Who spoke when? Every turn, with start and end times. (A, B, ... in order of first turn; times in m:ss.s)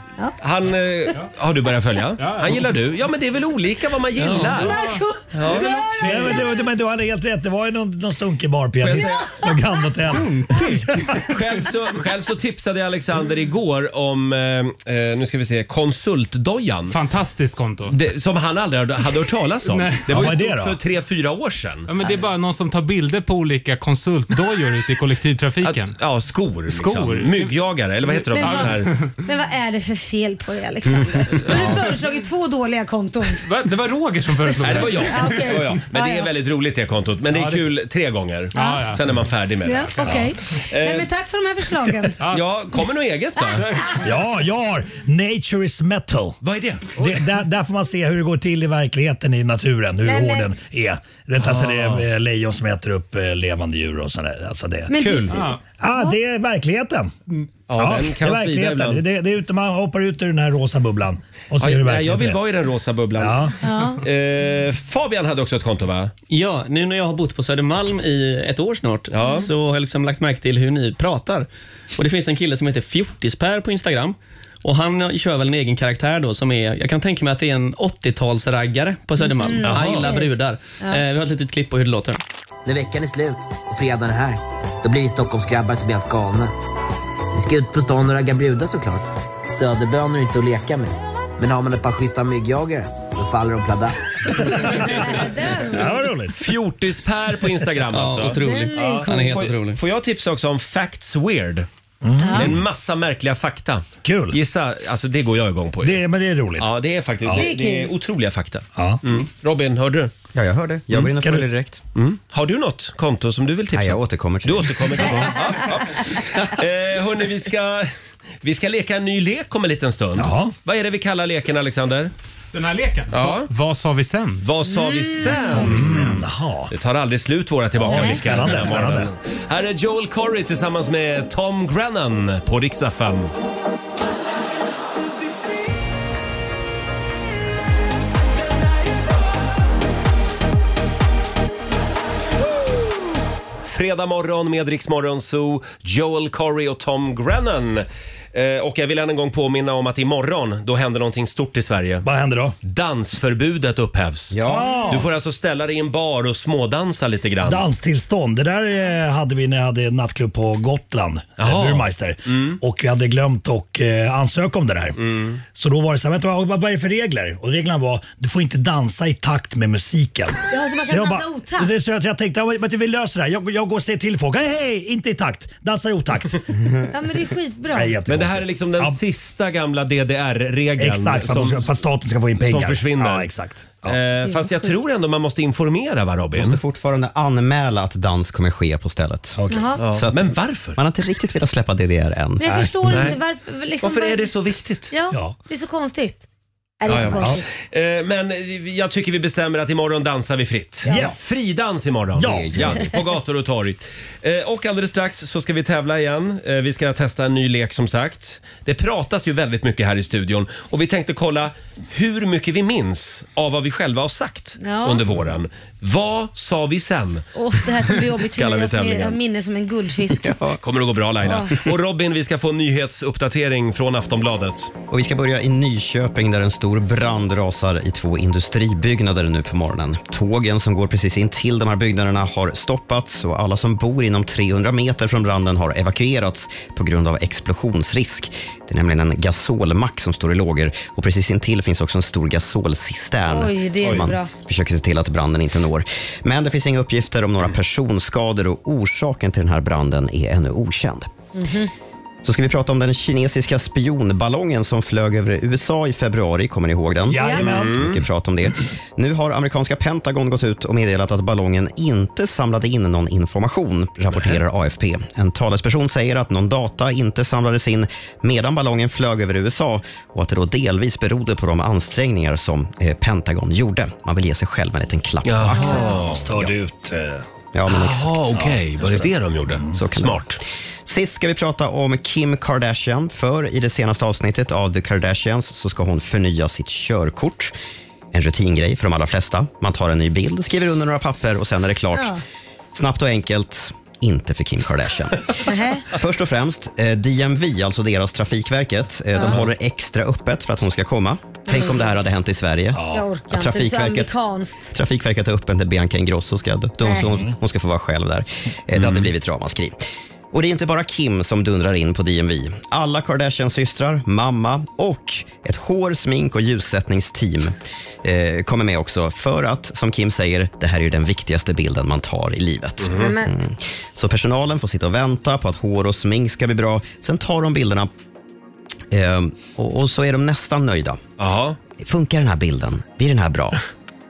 0:00.4-0:05.8 A
0:02.2-0:02.6 B
0:04.2-0:06.3 B
0:04.6-0:06.4 C
0:06.0-0:11.3 D
0:08.8-0:09.4 A
0:10.5-0:17.0 A
0:16.9-0:18.0 B
0:17.9-0:21.9 A
0:19.7-0:20.3 B
0:20.1-0:20.8 D
0:21.9-0:26.0 B
0:25.6-0:28.9 A
0:26.6-0:27.5 B
0:28.3-0:29.1 B
0:28.3-0:33.4 C
0:31.4-0:31.9 B
0:33.4-0:35.2 B
0:34.6-0:41.1 A
0:35.0-0:36.3 C
0:37.3-0:37.6 B
0:38.5-0:38.9 C
0:38.5-0:39.0 B
0:39.6-0:42.2 C
0:40.0-0:40.3 D
0:42.2-0:42.4 B
0:42.3-0:43.7 A
0:44.0-0:46.4 D
0:46.4-0:47.0 A
0:47.0-0:55.0 D
0:50.0-0:50.5 C
0:51.4-0:52.0 A
0:54.9-0:56.2 C
0:54.9-0:55.4 A
0:55.3-0:55.6 B
0:55.7-1:02.4 D
0:57.7-0:59.0 A
1:01.6-1:06.1 A
1:03.2-1:03.6 D
1:03.6-1:04.0 C
1:06.3-1:22.2 E
1:09.1-1:09.5 A
1:19.2-1:20.3 C
1:19.6-1:20.1 A
1:22.6-1:26.5 F
1:27.3-1:34.6 F
1:34.3-1:35.0 D
1:34.6-1:36.0 C
1:35.7-1:36.5 D
1:36.4-1:41.7 A
1:37.9-1:39.8 E
1:38.3-1:39.3 C
1:42.0-1:42.6 D
1:42.2-1:42.5 C
1:42.3-1:46.0 A
1:44.0-1:44.4 D
1:45.8-1:46.7 D
1:46.6-1:50.1 A
1:47.4-1:47.9 C
1:48.8-1:49.0 D
1:50.3-1:51.8 G
1:51.2-1:51.4 D
1:51.9-1:57.9 A
1:53.7-1:55.3 G
1:58.4-2:02.1 A
2:00.2-2:00.5 D
2:02.5-2:04.5 B
2:03.1-2:03.5 A
2:04.4-2:13.3 A
2:04.6-2:05.8 C
2:05.4-2:06.7 D
2:07.8-2:09.1 D
2:07.8-2:08.2 C
2:23.6-2:32.1 A
2:32.0-2:32.6 D
2:32.6-2:34.4 A
2:34.3-2:35.0 G
2:34.4-2:35.1 D
2:34.9-2:37.6 A
2:37.4-2:45.0 D
2:41.4-2:42.6 A
2:45.0-2:45.4 A
2:45.5-2:56.5 D
2:50.5-2:51.7 C
2:56.9-2:57.9 C
2:57.7-2:59.0 D
2:58.1-3:01.7 A
3:00.8-3:04.0 D
3:02.4-3:03.3 A
3:03.8-3:06.6 A
3:04.2-3:04.5 C
3:06.3-3:12.7 G
3:09.4-3:09.8 D
3:09.5-3:09.8 C
3:09.8-3:10.8 A
3:12.4-3:14.3 C
3:12.4-3:12.7 D
3:12.8-3:13.2 A
3:13.8-3:14.9 A
3:14.9-3:16.2 C
3:16.8-3:17.4 C
3:16.9-3:37.3 A
3:17.2-3:17.4 D
3:20.8-3:21.3 D
3:22.1-3:22.6 D
3:22.2-3:22.9 G
3:34.6-3:35.0 C
3:37.3-3:40.3 C
3:37.9-3:39.2 A
3:40.1-3:40.6 G
3:40.6-3:44.7 A
3:41.2-3:41.5 C
3:44.9-4:11.1 G
4:03.3-4:04.3 C
4:11.3-4:11.7 C
4:12.2-4:36.5 G
4:17.1-4:17.8 D
4:17.2-4:17.4 C
4:17.4-4:18.0 A
4:35.2-4:36.3 A
4:35.6-4:36.0 C
4:35.9-4:37.2 D
4:37.5-4:38.4 G
4:37.7-4:40.4 A
4:38.3-4:39.8 D
4:39.7-4:40.3 G
4:40.8-4:47.5 G
4:48.1-4:52.1 G
4:51.9-4:52.2 C
4:52.7-4:55.3 G
4:55.4-4:55.9 C
4:55.9-5:04.1 G
5:01.5-5:01.9 C
5:02.7-5:03.1 D
5:02.9-5:04.7 C
5:04.7-5:27.9 G
5:06.8-5:07.1 C
5:07.0-5:07.3 D
5:08.8-5:09.1 A
5:22.8-5:23.1 A
5:22.9-5:23.3 C
5:28.9-5:31.0 G
5:31.2-5:31.6 A
5:31.8-5:33.6 G